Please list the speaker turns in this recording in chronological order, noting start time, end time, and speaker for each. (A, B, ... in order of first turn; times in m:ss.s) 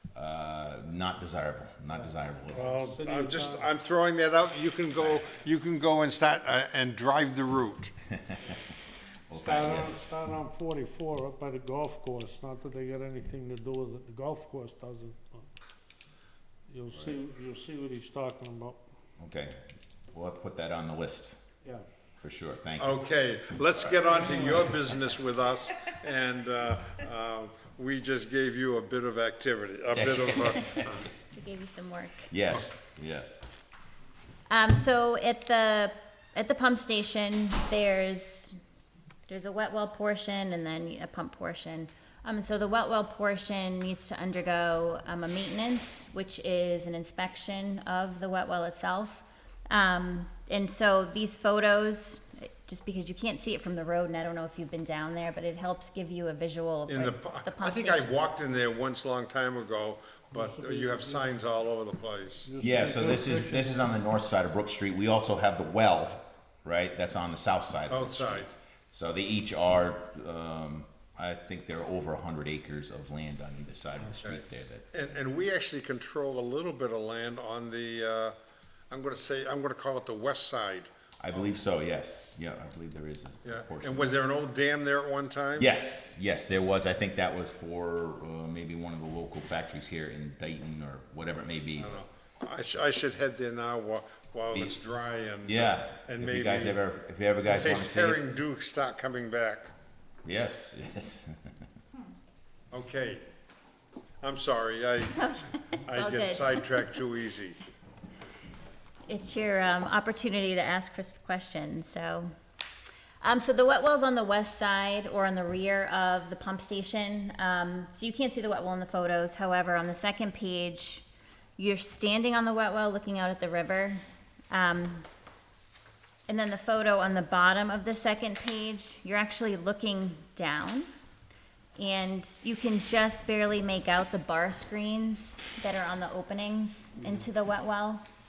0:00.2-0:02.7 A
0:01.9-0:03.7 B
0:02.5-0:07.9 C
0:05.0-0:05.2 A
0:09.3-0:10.0 A
0:09.3-0:15.5 B
0:16.7-0:18.8 B
0:19.2-0:19.6 A
0:20.1-0:21.4 A
0:22.2-0:23.0 A
0:22.8-0:31.1 C
0:24.2-0:24.7 A
0:24.2-0:24.5 B
0:29.9-0:30.9 A
0:31.3-0:32.3 D
0:32.3-0:33.4 A
0:34.5-0:38.6 D
0:39.3-0:58.1 D
0:56.9-1:02.5 C
1:00.3-1:01.4 B
1:02.5-1:04.0 B
1:02.6-1:14.9 A
1:07.9-1:08.5 C
1:14.0-1:18.4 C
1:18.9-1:21.5 C
1:21.2-1:24.2 A
1:23.4-1:25.7 C
1:25.6-1:32.0 A
1:31.8-1:36.8 C
1:35.5-1:38.4 A
1:37.5-1:39.7 C
1:40.2-1:41.4 A
1:42.7-1:43.2 C
1:44.2-1:45.3 C
1:45.2-1:46.7 D
1:45.8-1:47.6 C
1:49.1-1:52.3 D
1:53.2-2:01.0 D
2:01.6-2:05.1 D
2:06.3-2:10.9 D
2:11.8-2:18.0 D